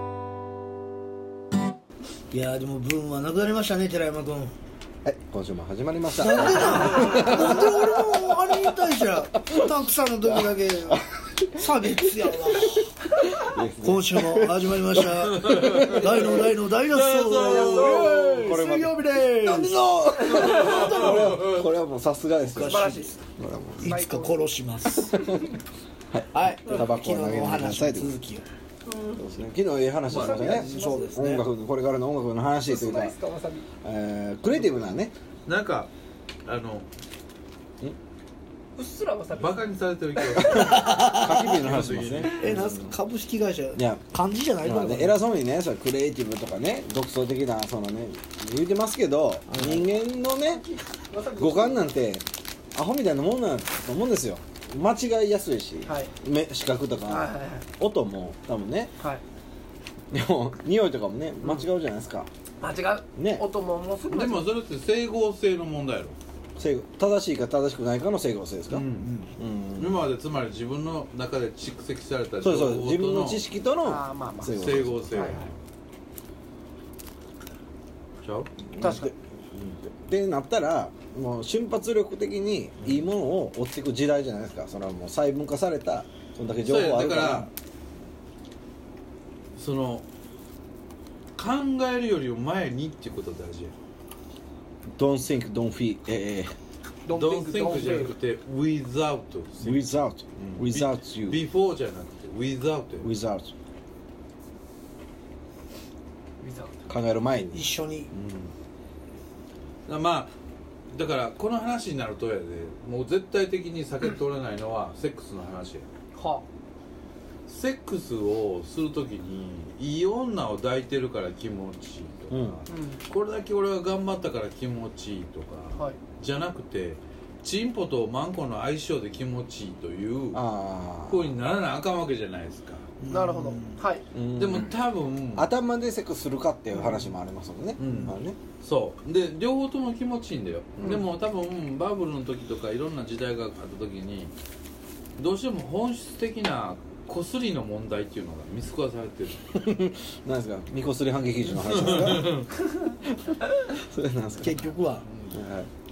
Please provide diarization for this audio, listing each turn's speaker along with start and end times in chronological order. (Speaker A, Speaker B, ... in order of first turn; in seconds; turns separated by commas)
Speaker A: 2.3-4.5, Speaker B: 5.0-8.8, Speaker A: 6.1-11.0, Speaker B: 10.2-12.8, Speaker A: 11.5-21.5, Speaker B: 13.3-16.5, Speaker C: 15.2-16.4, Speaker C: 16.9-18.1, Speaker D: 17.3-18.5, Speaker B: 17.9-23.9, Speaker C: 20.3-21.6, Speaker D: 20.4-20.8, Speaker A: 22.4-23.2, Speaker D: 22.6-23.1, Speaker A: 23.8-25.3, Speaker D: 23.8-24.4, Speaker B: 25.1-25.4, Speaker D: 25.1-25.4, Speaker B: 26.1-28.1, Speaker A: 26.3-28.4, Speaker B: 29.1-33.1, Speaker C: 30.1-30.4, Speaker D: 30.1-31.2, Speaker A: 30.2-31.4, Speaker D: 32.7-33.7, Speaker B: 33.8-35.1, Speaker C: 35.5-35.9, Speaker C: 36.4-36.9, Speaker D: 38.8-39.6, Speaker C: 39.3-42.9, Speaker B: 40.4-42.6, Speaker A: 40.7-41.2, Speaker A: 42.4-45.1, Speaker B: 43.8-44.0, Speaker B: 44.6-50.6, Speaker A: 49.5-49.8, Speaker D: 50.5-51.9, Speaker B: 51.4-58.9, Speaker D: 55.9-56.1, Speaker D: 57.1-57.6, Speaker B: 60.1-62.3, Speaker D: 62.6-64.5, Speaker B: 63.1-63.4, Speaker C: 64.1-66.2, Speaker B: 66.6-68.8, Speaker C: 68.7-69.1, Speaker A: 68.9-69.3, Speaker B: 69.4-70.0, Speaker C: 69.8-73.4, Speaker B: 72.4-75.5, Speaker D: 73.8-75.4, Speaker C: 74.6-75.5, Speaker C: 78.2-78.5, Speaker B: 78.8-87.5, Speaker D: 78.8-79.1, Speaker C: 86.6-87.5, Speaker C: 89.5-90.0, Speaker C: 91.3-93.7, Speaker B: 94.9-96.5, Speaker D: 97.0-98.1, Speaker C: 97.1-103.1, Speaker B: 99.6-101.4, Speaker B: 103.0-103.5, Speaker D: 106.4-106.8, Speaker B: 106.9-108.5, Speaker A: 107.5-108.1, Speaker C: 109.9-110.3, Speaker C: 110.9-115.9, Speaker D: 116.1-116.4, Speaker C: 117.5-130.4, Speaker B: 122.3-122.6, Speaker D: 122.7-123.0, Speaker B: 130.3-131.3, Speaker C: 131.1-132.9, Speaker A: 133.0-133.8, Speaker D: 133.1-134.1, Speaker B: 134.1-134.8, Speaker C: 134.3-135.5, Speaker B: 135.3-138.4, Speaker C: 137.8-144.3, Speaker A: 137.8-138.1, Speaker B: 140.8-141.0, Speaker C: 145.2-149.5, Speaker B: 149.5-152.3, Speaker C: 151.5-152.5, Speaker B: 153.1-154.7, Speaker A: 154.4-155.1, Speaker C: 155.0-155.3, Speaker B: 155.3-155.7